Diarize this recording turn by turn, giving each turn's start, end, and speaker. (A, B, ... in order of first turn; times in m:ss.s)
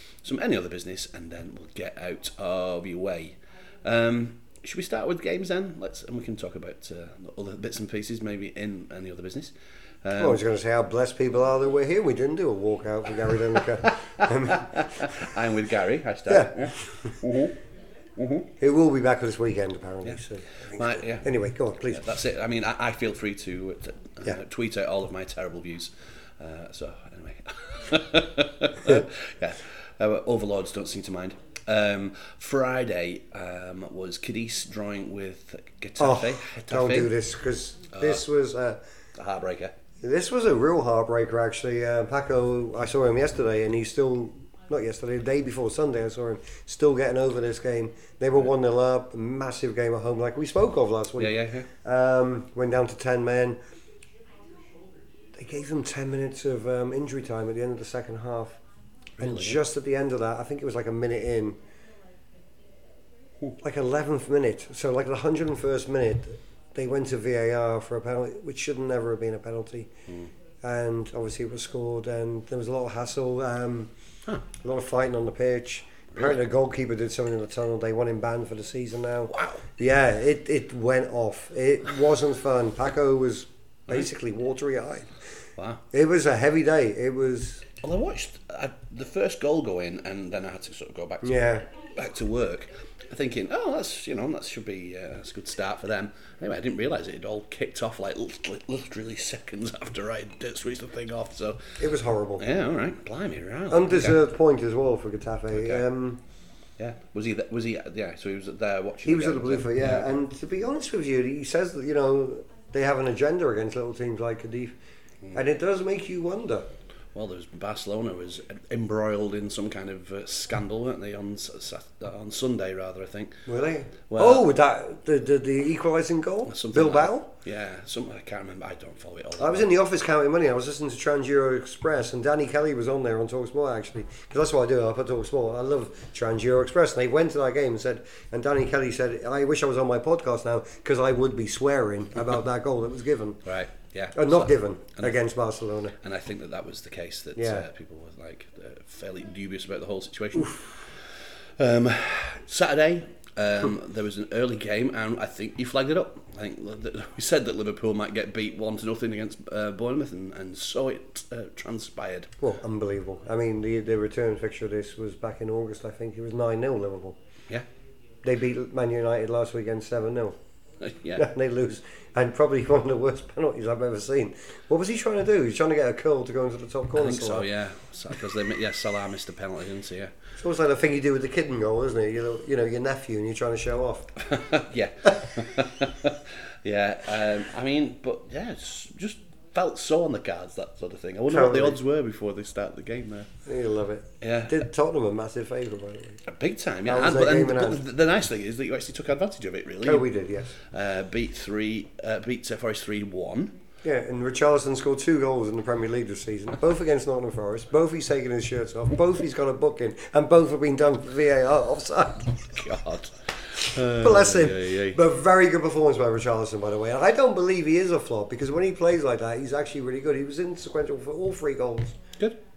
0:00.2-0:10.4 A
0:10.2-0:15.2 B
0:14.2-0:17.6 A
0:16.3-0:17.1 B
0:18.2-0:18.5 A
0:18.6-0:22.0 B
0:20.7-0:21.3 A
0:21.9-0:37.1 A
0:36.0-0:38.8 B
0:37.9-0:38.2 A
0:39.2-0:39.7 A
0:40.0-0:53.6 B
0:51.2-0:51.7 A
0:55.4-0:58.6 B
0:59.2-0:59.6 A
0:59.2-1:01.6 B
1:03.6-1:09.9 B
1:10.6-1:13.9 B
1:14.6-1:25.2 B
1:19.3-1:19.7 A
1:25.6-1:25.8 A
1:25.9-1:27.7 B
1:27.8-1:41.8 A
1:31.2-1:31.6 B
1:41.8-1:42.4 B
1:42.4-1:44.2 A
1:43.7-1:46.2 B
1:45.5-1:45.8 A
1:46.8-1:50.1 A
1:49.0-1:54.8 B
1:55.3-1:56.7 B
1:57.1-2:03.5 A
2:03.5-2:07.3 B
2:04.1-2:04.5 A
2:06.5-2:09.7 A
2:09.4-2:23.4 B
2:23.4-2:25.2 A
2:24.2-2:26.0 B
2:26.0-2:42.4 A
2:27.4-2:27.7 B
2:42.4-2:47.2 B
2:48.2-2:50.4 B
2:50.8-2:51.3 A
2:51.2-2:57.5 B
2:57.0-3:00.1 A
3:00.4-3:04.1 B
3:04.2-3:13.3 A
3:11.3-3:11.8 B
3:13.5-3:16.2 B
3:14.2-3:14.6 A
3:16.2-3:20.1 A
3:16.9-3:17.8 B
3:19.8-3:20.5 B
3:20.6-3:23.6 A
3:23.8-3:32.6 B
3:32.5-3:35.0 A
3:33.8-3:42.0 B